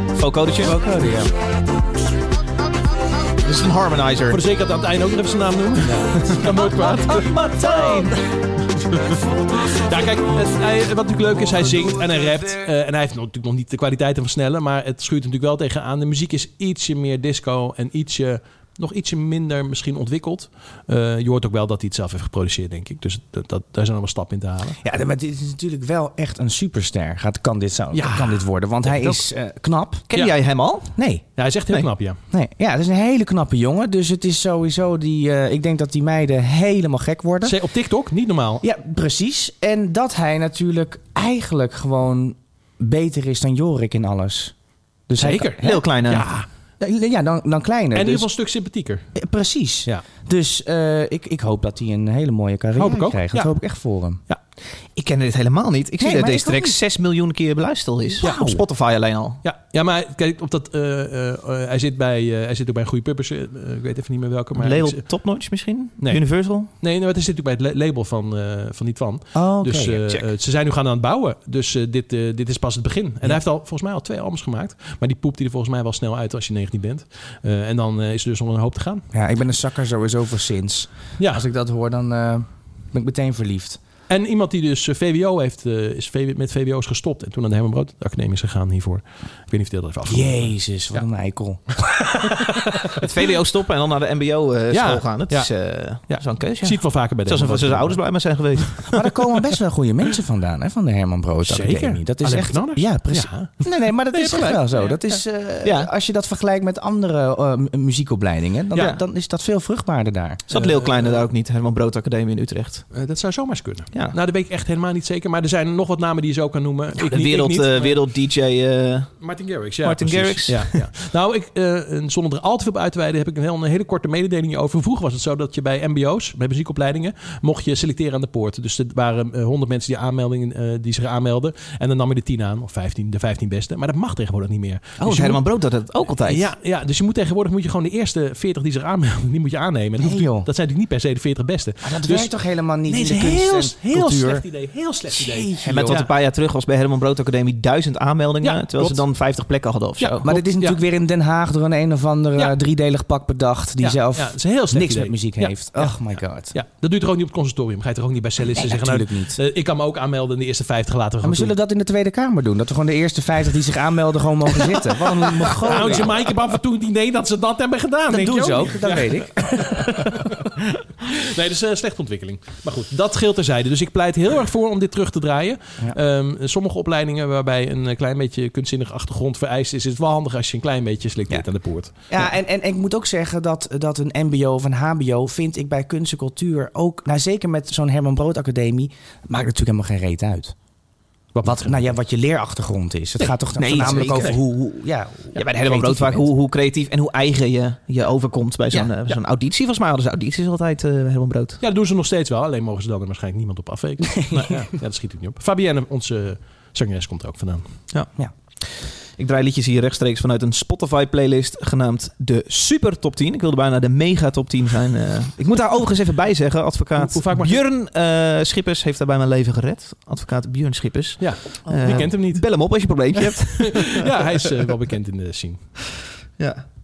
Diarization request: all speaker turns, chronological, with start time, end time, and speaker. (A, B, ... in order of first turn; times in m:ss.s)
0:00.2-0:00.8 A
0:00.6-0:01.3 B
0:03.4-0:04.4 A
0:04.3-0:08.2 C
0:06.3-0:08.2 A
0:08.9-0:09.1 C
0:09.7-0:24.8 C
0:24.8-0:30.0 B
0:27.9-0:29.2 C
0:30.1-0:31.0 A
0:31.0-0:31.2 B
0:31.4-0:32.2 C
0:32.3-0:37.6 B
0:37.4-0:38.6 C
0:38.6-0:44.5 B
0:45.1-0:45.8 B
0:45.2-0:46.5 C
0:45.6-0:46.3 A
0:46.8-0:48.3 B
0:47.9-0:49.1 C
0:49.2-0:54.2 B
0:52.8-0:53.5 C
0:55.0-0:59.4 A
0:56.0-0:56.8 B
0:58.2-0:58.6 B
0:59.4-1:05.0 C
1:04.6-1:06.7 A
1:06.0-1:19.1 C
1:09.3-1:10.0 B
1:19.1-1:23.8 B
1:24.1-1:31.0 C
1:30.1-1:31.7 B
1:31.7-1:33.0 C
1:33.0-1:39.0 A
1:34.7-1:38.9 C
1:38.9-1:50.4 B
1:41.5-1:45.2 C
1:45.6-1:45.9 A
1:50.5-1:52.9 A
1:50.5-1:51.3 C
1:52.9-1:58.0 C
1:57.0-1:59.2 A
1:59.2-2:15.4 C
1:59.8-2:00.8 A
2:15.0-2:16.5 A
2:16.2-2:22.3 C
2:20.0-2:20.5 B
2:21.8-2:24.4 B
2:22.9-2:26.1 C
2:25.1-2:26.0 B
2:25.6-2:30.3 A
2:28.4-2:29.0 C
2:30.0-2:30.8 C
2:30.2-2:36.5 B
2:33.8-2:41.5 C
2:38.6-2:39.4 B
2:41.2-2:46.1 B
2:45.6-2:50.4 C
2:48.1-2:50.3 B
2:51.1-3:02.3 C
3:02.1-3:10.6 B
3:11.3-3:11.9 C
3:11.4-3:16.3 B
3:13.6-3:14.5 A
3:13.7-3:14.4 C
3:15.4-3:21.6 A
3:21.6-3:27.6 C
3:29.2-3:44.3 A
3:37.0-3:37.6 C
3:41.2-3:45.6 C